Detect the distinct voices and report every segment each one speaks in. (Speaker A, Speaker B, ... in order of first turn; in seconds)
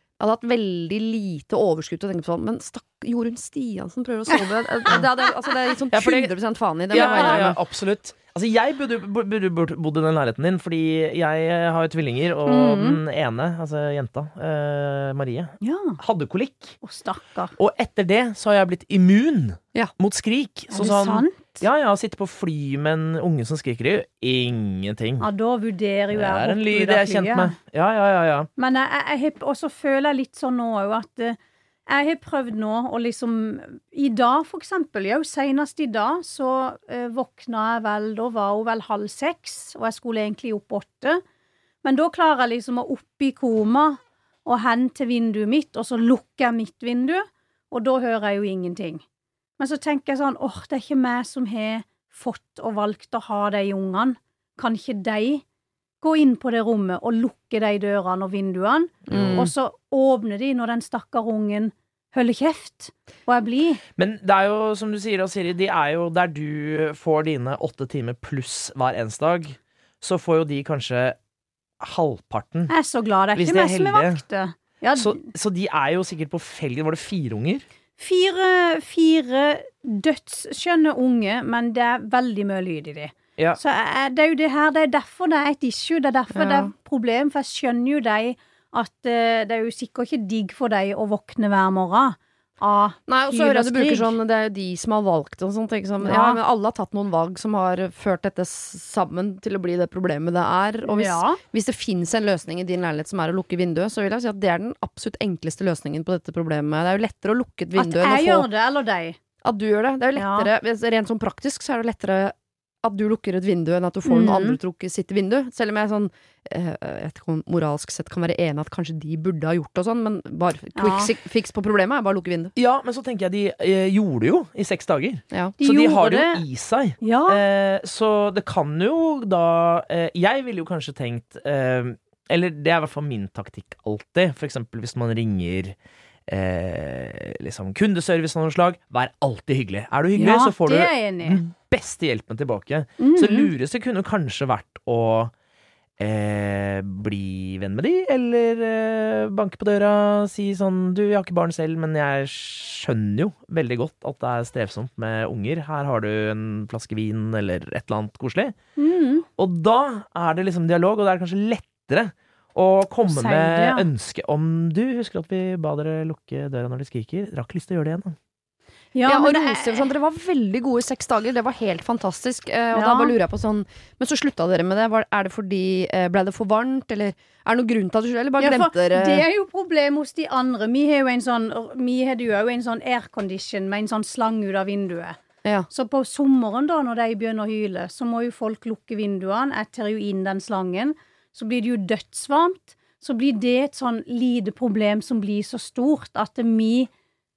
Speaker A: 0.2-7.6, 59.1-59.5, 86.3-86.7, 93.1-108.5, 109.4-122.5, 169.1-179.2
Speaker B: 5.9-6.3, 6.9-16.8, 17.6-25.3, 26.1-28.5, 59.1-59.5, 64.0-71.2, 71.8-72.7, 73.3-74.2, 75.0-77.6, 122.5-135.8, 136.3-145.3, 146.0-158.5, 159.4-168.2
Speaker C: 6.9-7.4, 12.4-13.0, 15.6-16.0, 16.8-17.5, 20.7-21.6, 25.2-27.5, 28.6-41.2, 41.8-49.0, 49.6-55.4, 56.0-63.8, 72.7-75.2, 78.0-94.2, 96.0-96.4, 100.8-101.4, 107.7-109.2, 110.1-110.5, 114.0-114.6, 120.7-121.1, 125.6-126.4, 127.0-127.4, 140.1-141.4, 143.0-143.5, 158.8-159.3, 163.1-163.8, 168.9-169.9, 172.7-173.1, 178.4-185.2, 185.7-196.9